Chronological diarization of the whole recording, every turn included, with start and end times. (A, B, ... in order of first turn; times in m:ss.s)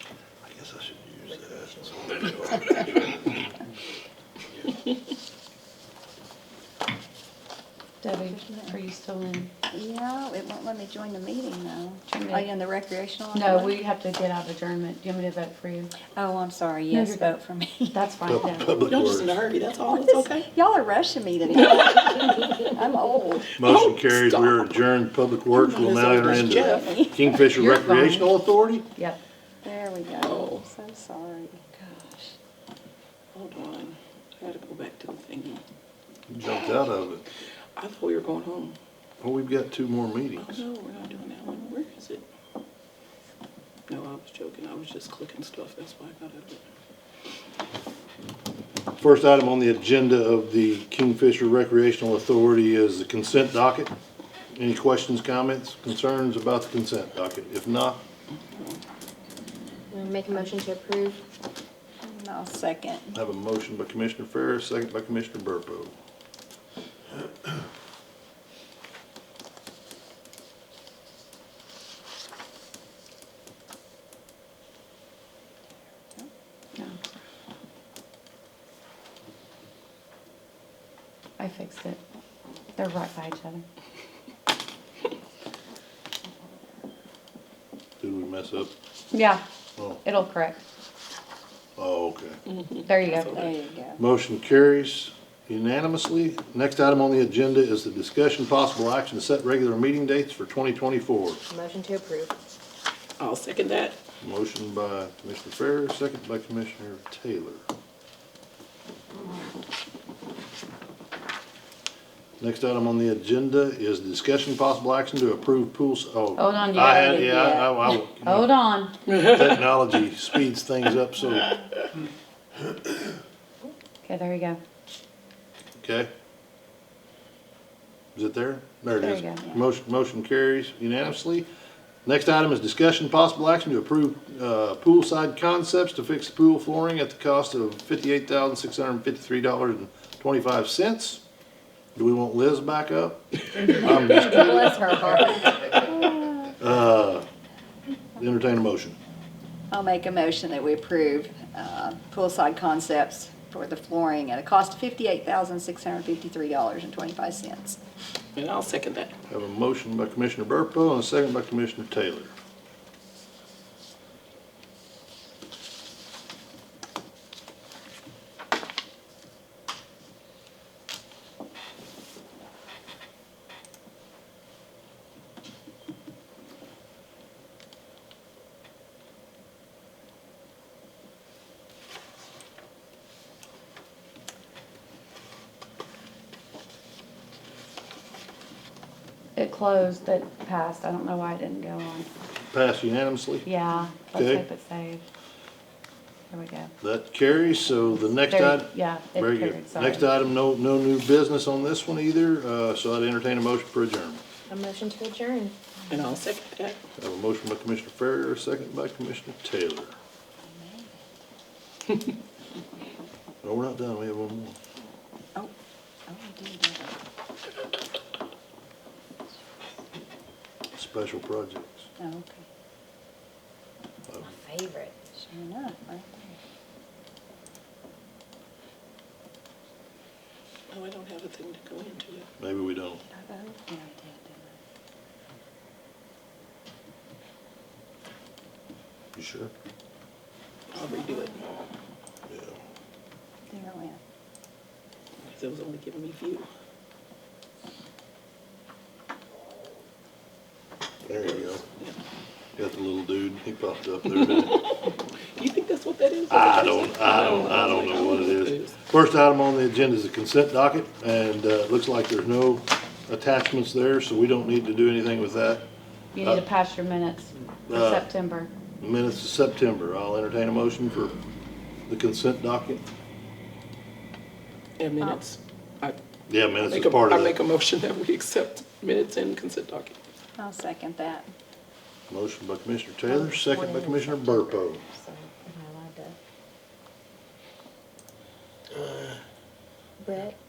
0:00.4-0:03.5 A
0:01.3-0:02.2 B
0:08.0-0:09.5 C
0:08.4-0:08.7 D
0:09.7-0:13.8 D
0:12.1-0:12.5 C
0:13.3-0:15.9 C
0:16.1-0:18.2 D
0:16.9-0:17.3 C
0:17.9-0:18.7 C
0:18.2-0:19.4 A
0:18.8-0:20.5 E
0:19.9-0:23.5 D
0:21.5-0:22.2 E
0:23.5-0:24.6 E
0:23.6-0:28.9 A
0:25.5-0:27.1 E
0:26.2-0:27.4 D
0:27.5-0:28.3 C
0:29.6-0:32.3 D
0:30.2-0:30.6 E
0:33.3-0:35.6 E
0:36.3-0:37.2 A
0:37.8-0:38.8 E
0:39.2-0:40.6 A
0:40.4-0:42.2 E
0:43.9-0:46.6 E
0:49.0-0:53.9 A
0:54.5-0:58.0 A
0:59.9-1:01.2 B
1:02.0-1:03.1 D
1:03.1-1:05.9 A
1:21.4-1:22.0 C
1:22.7-1:23.6 C
1:28.0-1:28.7 A
1:29.1-1:29.4 C
1:29.8-1:30.0 A
1:30.0-1:30.6 C
1:31.8-1:32.4 A
1:32.5-1:33.5 E
1:32.8-1:33.4 C
1:33.2-1:34.0 D
1:34.0-1:41.4 A
1:41.5-1:42.3 B
1:43.2-1:44.0 E
1:44.2-1:47.6 A
1:52.4-2:01.6 A
1:56.4-1:57.3 C
1:56.7-1:57.7 D
1:58.2-1:58.9 C
2:04.0-2:04.6 C
2:05.8-2:06.1 A
2:08.1-2:11.5 A
2:09.0-2:09.4 C
2:12.0-2:21.2 A
2:21.9-2:25.2 A
2:23.8-2:26.5 D
2:26.6-2:27.3 A
2:28.2-2:29.0 A
2:29.7-2:37.8 D
2:38.4-2:39.1 E
2:39.3-2:42.3 A
3:09.4-3:12.1 C
3:12.5-3:13.5 A
3:13.4-3:15.0 C
3:14.1-3:14.4 A
3:16.3-3:16.7 C
3:16.8-3:24.2 A
3:18.0-3:20.1 C
3:24.5-3:25.6 B
3:25.9-3:26.8 E
3:27.0-3:29.9 A
3:30.4-3:31.0 D
3:33.4-3:34.6 A
3:36.1-3:36.9 D
3:40.8-3:41.8 A
3:42.0-3:42.4 D
3:44.1-3:44.4 A
3:44.2-3:44.9 B
3:45.2-3:46.4 D
3:50.7-3:52.3 E
3:52.4-3:53.0 A
3:53.1-3:54.5 D
3:59.1-3:59.5 A
4:00.7-4:01.4 E
4:02.3-4:02.6 A
4:03.5-4:04.0 D
4:05.3-4:06.5 E
4:11.0-4:11.6 A
4:12.6-4:14.6 A
4:14.1-4:18.7 E
4:16.3-4:25.6 A
4:26.1-4:28.5 C
4:26.2-4:26.4 A
4:27.7-4:28.1 A
4:28.8-4:31.2 A
4:31.9-4:32.8 A
4:34.8-4:36.0 E
4:36.3-4:37.4 A
4:36.6-4:40.0 E
4:40.4-4:41.3 D
4:42.1-4:44.8 A
4:43.1-4:46.2 B
4:50.0-4:50.3 B